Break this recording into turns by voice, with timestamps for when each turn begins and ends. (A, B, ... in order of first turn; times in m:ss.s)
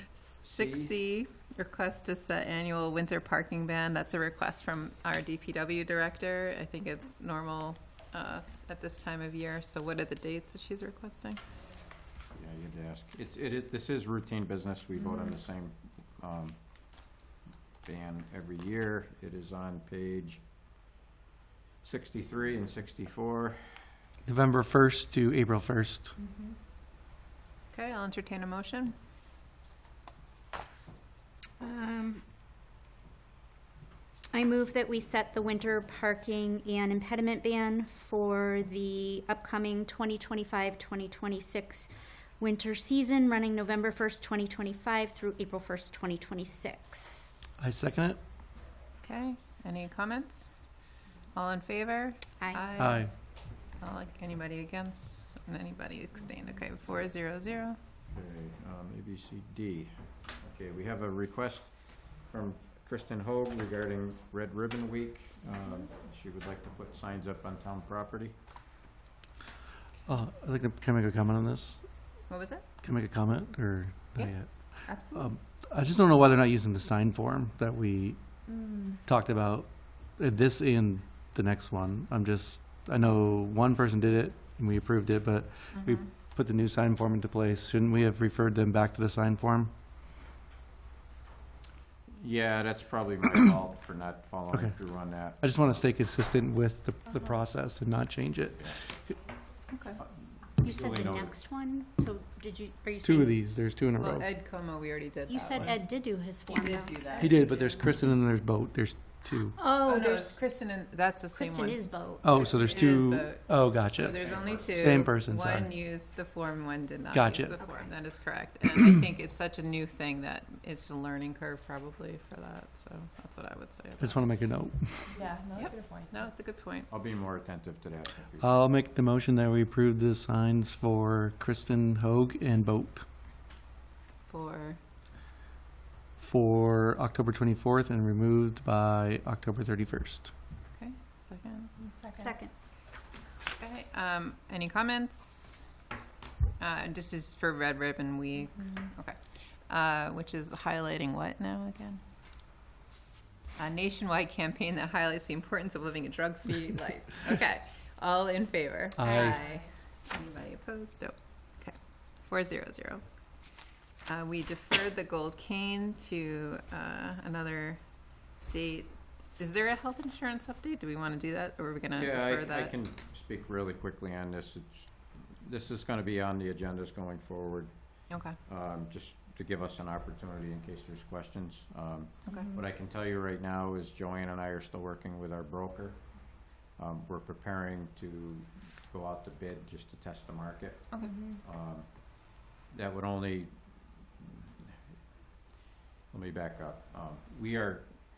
0:00.1-0:11.4 A
0:00.4-0:00.9 B
0:12.3-0:16.6 B
0:17.8-0:20.4 B
0:21.8-0:23.6 B
0:24.2-0:26.1 C
0:26.2-0:26.5 D
0:27.7-0:28.9 A
0:31.6-0:32.2 E
0:34.3-0:47.3 E
0:47.6-0:48.2 C
0:49.0-0:50.6 A
0:51.3-0:53.1 A
0:52.8-0:53.1 C
0:53.7-0:57.8 A
0:58.1-1:08.3 B
1:10.0-1:29.7 C
1:12.3-1:12.6 A
1:14.2-1:15.3 A
1:18.5-1:19.0 D
1:25.7-1:26.1 A
1:32.2-1:35.6 B
1:34.5-1:39.1 C
1:39.7-1:40.0 A
1:40.0-1:41.3 B
1:40.6-1:43.4 E
1:43.0-1:44.3 C
1:44.0-1:47.5 A
1:45.3-1:47.3 E
1:47.2-1:49.6 C
1:49.6-1:50.4 E
1:49.8-2:04.2 A
1:51.3-1:52.6 E
1:52.2-1:55.7 C
1:54.0-1:55.1 B
1:57.1-1:57.6 C
2:04.0-2:05.1 C
2:05.1-2:06.2 D
2:05.5-2:06.9 A
2:06.9-2:08.5 B
2:08.4-2:13.0 C
2:14.2-2:14.8 A
2:16.2-2:20.3 C
2:20.7-2:21.7 A
2:21.8-2:22.3 D
2:22.1-2:22.5 E
2:23.5-2:25.6 A
2:26.6-2:32.0 A
2:33.6-2:43.0 A
2:39.0-2:39.4 C
2:44.0-2:47.8 A
2:48.5-2:52.7 A
2:52.0-2:57.7 B
2:58.1-2:58.4 A
2:58.4-3:13.5 B
3:02.2-3:02.5 A
3:02.3-3:02.6 D
3:11.0-3:11.4 D
3:14.2-3:14.5 B
3:16.1-3:17.9 B